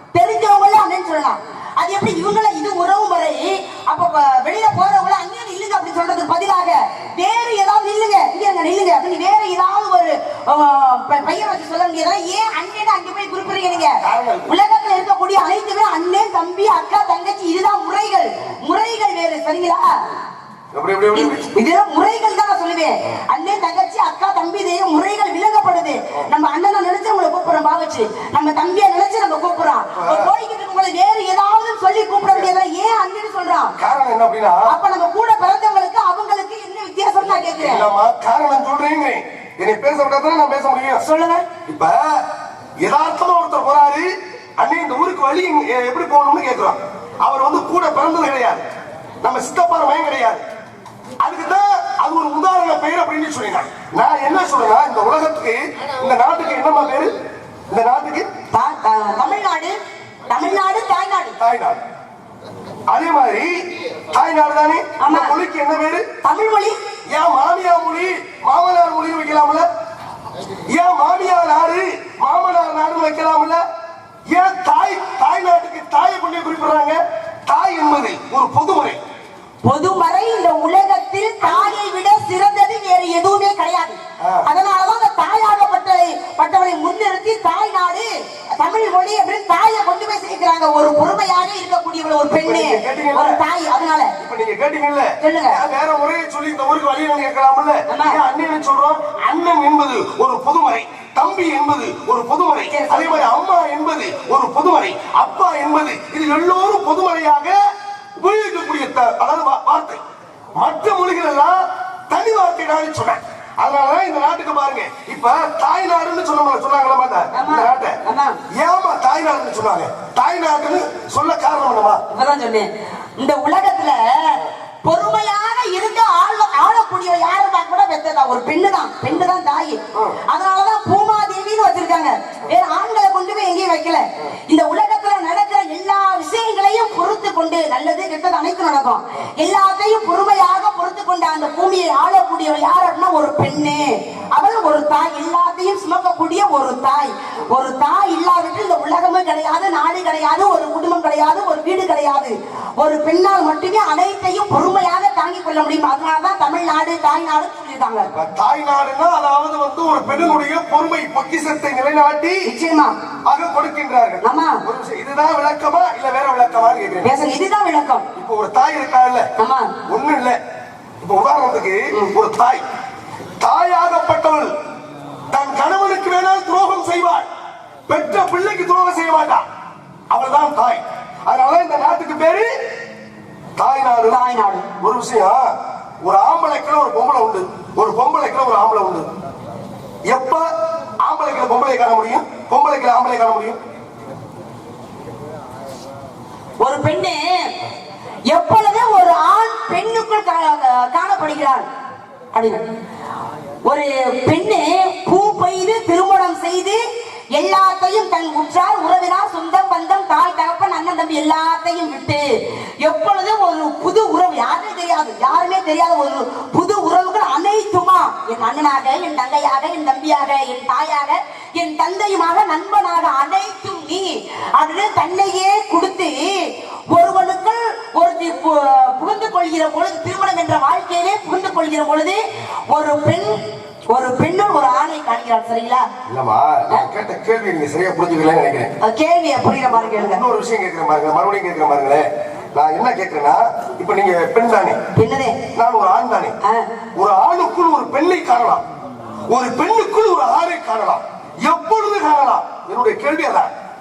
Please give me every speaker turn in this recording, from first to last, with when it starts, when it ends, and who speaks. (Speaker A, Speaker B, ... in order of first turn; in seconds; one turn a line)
Speaker A: 0.1-20.0
Speaker B: 14.0-14.6
Speaker B: 20.7-21.5
Speaker A: 21.1-33.7
Speaker B: 29.9-30.3
Speaker B: 33.8-34.7
Speaker A: 34.7-37.9
Speaker B: 37.6-41.0
Speaker A: 41.0-41.5
Speaker B: 41.7-42.2
Speaker B: 42.8-48.6
Speaker B: 49.2-50.4
Speaker B: 51.2-57.1
Speaker B: 57.7-58.3
Speaker A: 58.5-59.8
Speaker A: 60.3-61.4
Speaker B: 61.4-61.8
Speaker B: 62.9-63.5
Speaker B: 64.1-66.1
Speaker A: 65.0-65.4
Speaker A: 66.2-66.8
Speaker B: 67.1-69.7
Speaker B: 70.7-73.6
Speaker B: 74.3-79.0
Speaker A: 79.6-94.1
Speaker B: 84.2-84.5
Speaker B: 92.4-93.4
Speaker B: 94.2-107.6
Speaker A: 95.2-95.6
Speaker A: 97.9-98.2
Speaker A: 102.7-103.3
Speaker B: 108.2-110.0
Speaker B: 110.6-118.0
Speaker A: 117.3-118.4
Speaker B: 118.5-122.0
Speaker A: 122.1-158.1
Speaker B: 129.9-130.2
Speaker B: 158.1-162.5
Speaker A: 162.4-163.0
Speaker B: 163.3-167.1
Speaker A: 164.2-164.6
Speaker A: 167.0-168.1
Speaker B: 168.2-169.3
Speaker A: 169.4-169.7
Speaker B: 169.9-170.4
Speaker B: 171.0-172.6
Speaker B: 173.4-174.5
Speaker B: 175.3-177.3
Speaker B: 177.9-179.4
Speaker B: 180.1-182.5
Speaker B: 183.6-184.2
Speaker A: 184.1-184.7
Speaker B: 184.8-185.4
Speaker B: 186.0-189.1
Speaker B: 190.1-190.5
Speaker B: 191.0-193.6
Speaker A: 196.6-197.5
Speaker A: 198.3-201.7
Speaker A: 202.3-202.6
Speaker A: 203.7-206.8
Speaker A: 207.3-235.9
Speaker B: 236.1-238.7
Speaker A: 238.8-240.2
Speaker B: 239.7-244.8
Speaker A: 244.9-245.4
Speaker B: 245.6-246.3
Speaker B: 247.0-248.6
Speaker B: 249.3-253.5